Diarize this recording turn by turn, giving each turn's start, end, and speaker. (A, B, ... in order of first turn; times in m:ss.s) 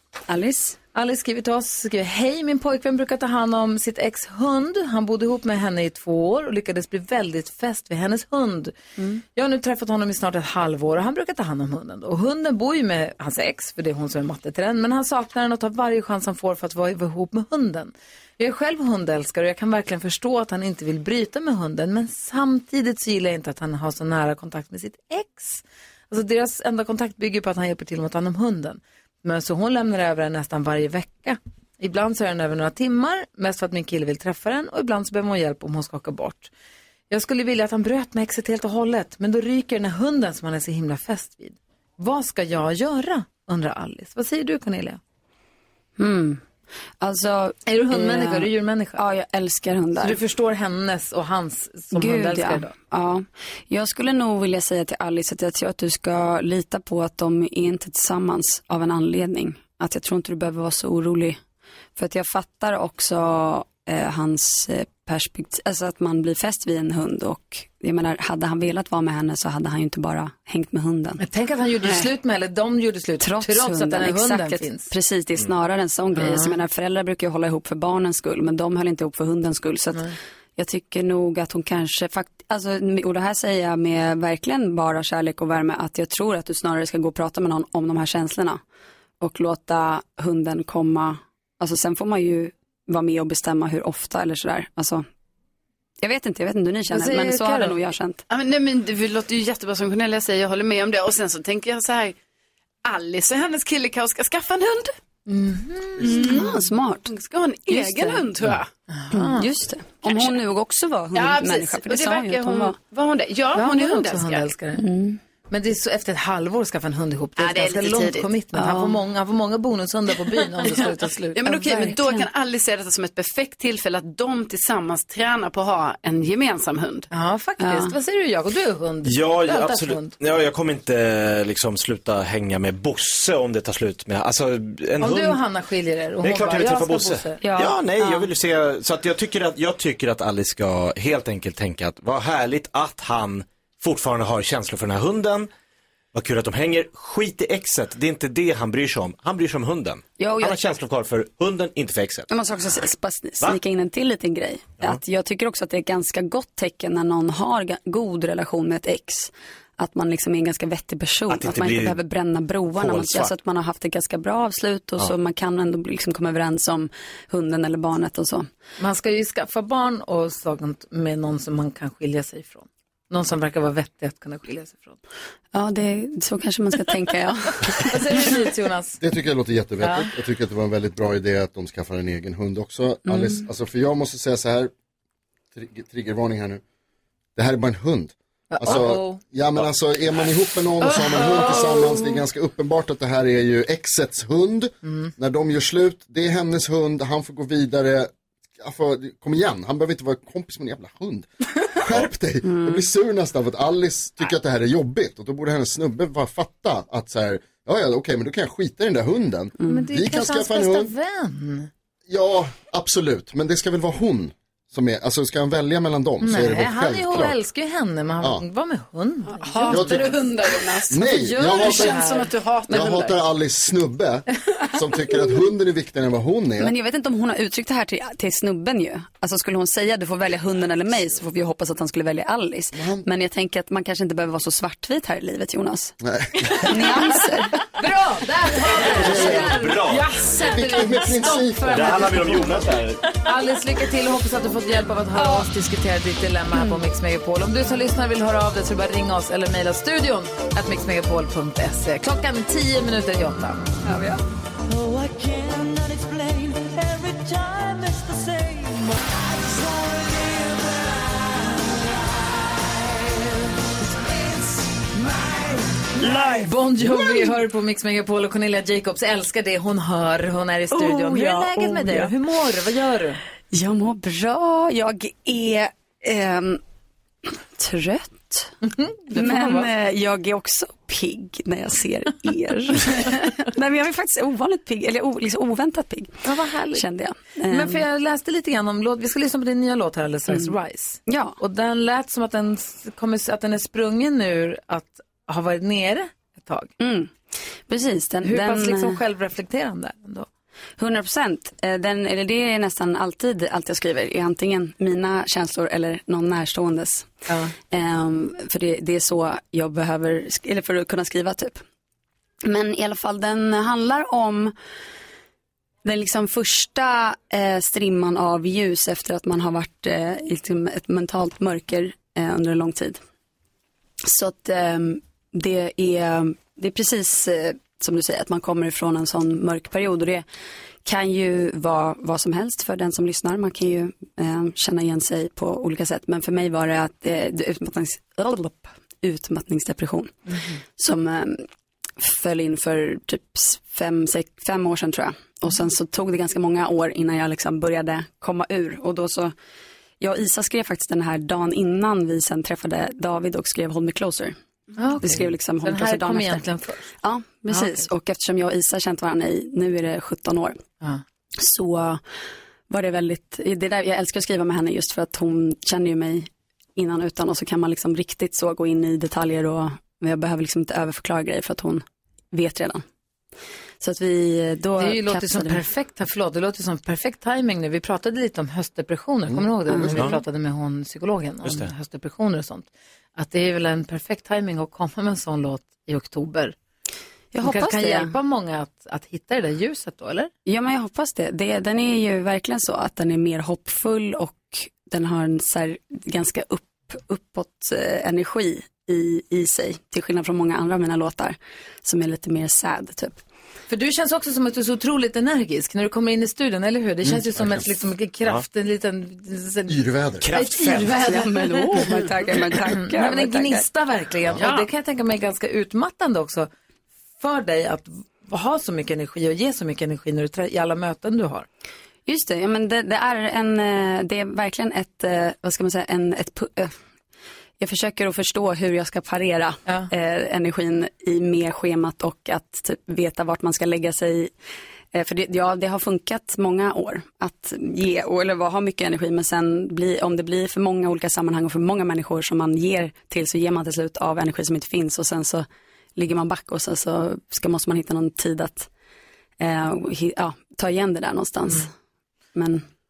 0:00.3-0:00.8 A
0:00.9-0:36.5 B
0:37.1-0:45.0 B
0:46.0-0:46.4 A
0:47.0-0:50.2 A
0:47.6-0:49.0 B
0:50.0-0:52.7 B
0:51.9-1:01.4 A
1:02.0-1:11.2 A
1:11.2-1:14.9 B
1:13.2-1:28.6 A
1:16.2-1:16.5 B
1:29.2-1:35.0 A
1:36.0-1:38.2 A
1:36.9-1:37.8 B
1:38.3-1:42.2 C
1:42.8-1:44.9 C
1:45.3-1:46.5 B
1:46.0-1:47.1 A
1:46.0-1:48.7 C
1:47.7-1:48.2 A
1:48.9-1:49.5 B
1:49.1-1:52.8 A
1:50.0-1:50.4 C
1:51.1-1:54.5 C
1:53.5-1:54.8 B
1:54.8-1:55.2 A
1:55.5-2:01.9 B
1:57.4-1:58.3 C
1:58.5-1:59.0 A
2:01.4-2:07.1 C
2:01.5-2:02.2 A
2:07.1-2:10.2 B
2:07.6-2:07.9 A
2:09.0-2:15.4 D
2:15.0-2:17.5 B
2:16.2-2:25.5 D
2:17.4-2:18.3 A
2:26.1-2:32.3 D
2:30.2-2:30.6 A
2:32.3-2:48.5 A
2:41.3-2:42.0 D
2:42.7-2:43.3 D
2:48.8-2:55.0 B
2:55.5-2:58.0 A
2:57.8-2:59.0 B
2:59.0-3:04.7 E
2:59.8-3:00.1 B
3:03.1-3:03.4 A
3:05.5-3:06.6 E
3:07.4-3:30.9 E
3:08.5-3:09.2 B
3:11.1-3:11.7 C
3:14.8-3:15.1 B
3:22.4-3:22.8 A
3:29.6-3:31.7 B
3:32.1-3:37.4 E
3:36.2-3:40.3 B
3:39.3-3:43.2 C
3:39.7-3:40.2 E
3:40.9-3:42.1 E
3:40.9-3:42.3 B
3:42.7-3:46.7 E
3:46.6-3:55.9 A
3:52.7-3:53.1 E
3:56.0-3:56.7 E
3:56.5-3:57.6 A
3:57.7-4:13.7 B
3:58.9-3:59.8 E
3:59.0-4:00.1 D
4:00.4-4:02.4 E
4:01.7-4:03.1 D
4:05.2-4:05.5 A
4:06.5-4:06.8 A
4:13.8-4:14.2 A
4:14.6-4:23.2 F
4:23.8-4:26.4 F
4:26.1-4:26.4 A
4:26.4-4:33.2 B
4:30.7-4:32.1 A
4:33.5-4:36.6 A
4:37.3-4:38.5 A
4:38.6-4:39.7 B
4:39.1-4:47.8 A
4:46.2-4:46.8 B
4:47.5-4:56.7 B
4:51.1-4:51.4 A
4:56.8-4:57.1 A
4:57.7-4:59.0 A
4:58.2-5:00.3 B
5:00.8-5:07.1 A
5:07.3-5:07.5 B
5:07.6-5:11.6 A
5:12.4-5:14.5 A
5:15.8-5:23.0 A
5:24.0-5:30.2 A
5:30.8-5:40.2 A
5:40.3-5:40.5 B
5:40.8-5:41.4 A
5:42.0-5:49.3 A
5:50.0-5:54.3 A
5:54.8-5:56.8 B
5:55.0-5:56.4 A
5:57.0-6:00.6 A
5:57.5-5:57.9 B
6:01.4-6:02.0 A
6:02.7-6:12.8 A
6:13.8-6:15.6 A
6:14.8-6:26.5 B
6:19.7-6:20.1 A
6:19.9-6:20.2 D
6:21.4-6:21.7 D
6:27.3-6:28.1 A
6:27.4-6:30.3 B
6:30.4-6:43.2 A
6:43.7-6:49.8 B
6:49.7-6:50.2 E
6:50.2-6:51.0 D
6:50.3-6:56.5 B
6:50.9-6:53.6 A
6:57.2-7:01.5 B
7:02.1-7:06.7 A
7:07.6-7:14.3 A
7:14.9-7:25.4 A
7:26.0-7:28.7 A
7:29.4-7:31.7 A
7:32.3-7:32.6 A